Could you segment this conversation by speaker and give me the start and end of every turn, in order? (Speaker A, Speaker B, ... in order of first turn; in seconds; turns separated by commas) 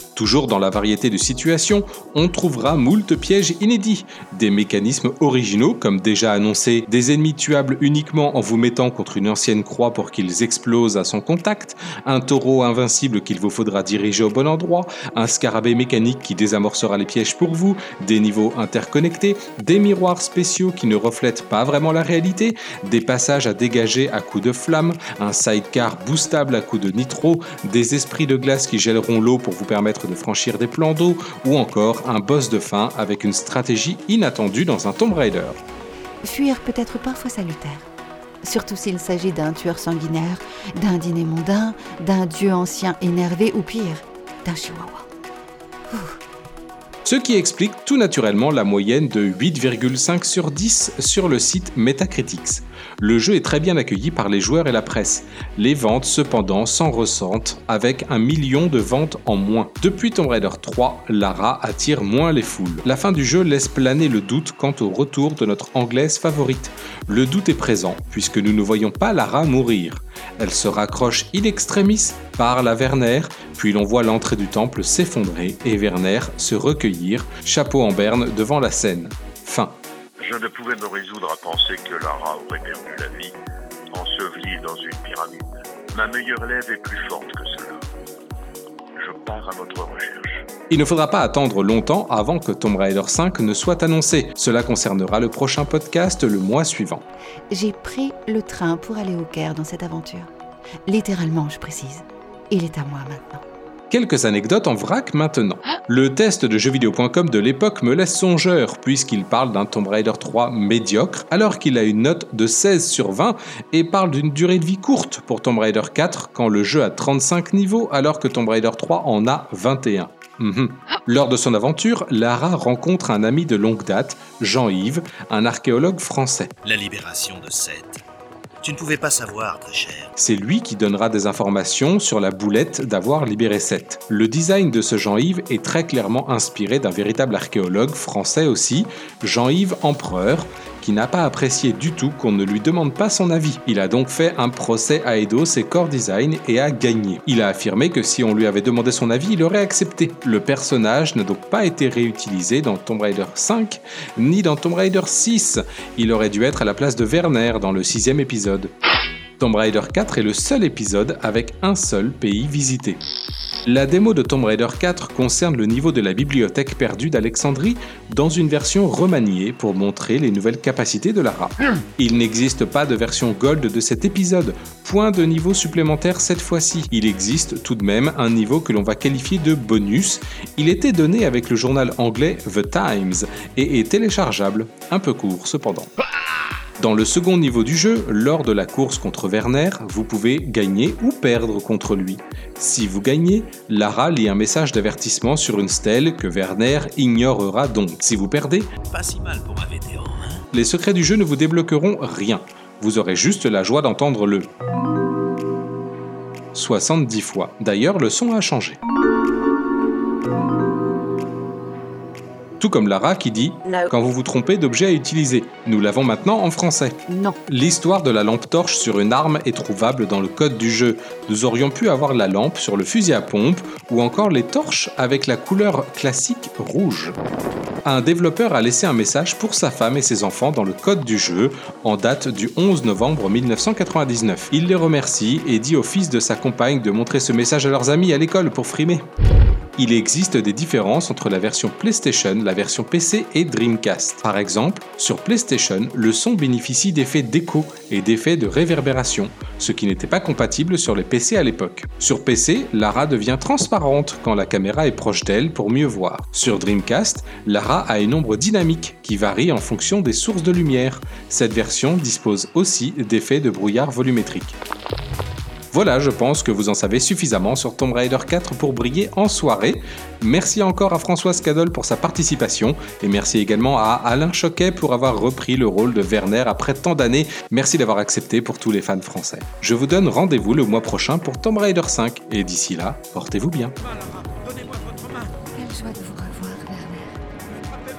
Speaker A: 0.1-35.6, Speaker B: 36.2-37.9, Speaker B: 38.4-45.1, Speaker A: 47.0-79.8, Speaker C: 80.2-83.3, Speaker C: 83.9-87.8, Speaker C: 89.0-90.4, Speaker A: 90.7-97.0, Speaker B: 97.5-100.3, Speaker B: 100.8-103.4, Speaker A: 103.9-126.5, Speaker D: 126.6-128.0, Speaker D: 128.6-130.1, Speaker A: 130.2-158.7, Speaker A: 159.4-163.0, Speaker A: 163.7-185.9, Speaker A: 186.8-198.7, Speaker D: 198.8-200.4, Speaker A: 200.5-204.5, Speaker A: 206.5-208.8, Speaker A: 212.6-227.2, Speaker B: 217.1-217.3, Speaker A: 227.8-239.1, Speaker A: 239.8-264.6, Speaker A: 265.7-283.8, Speaker B: 285.5-287.2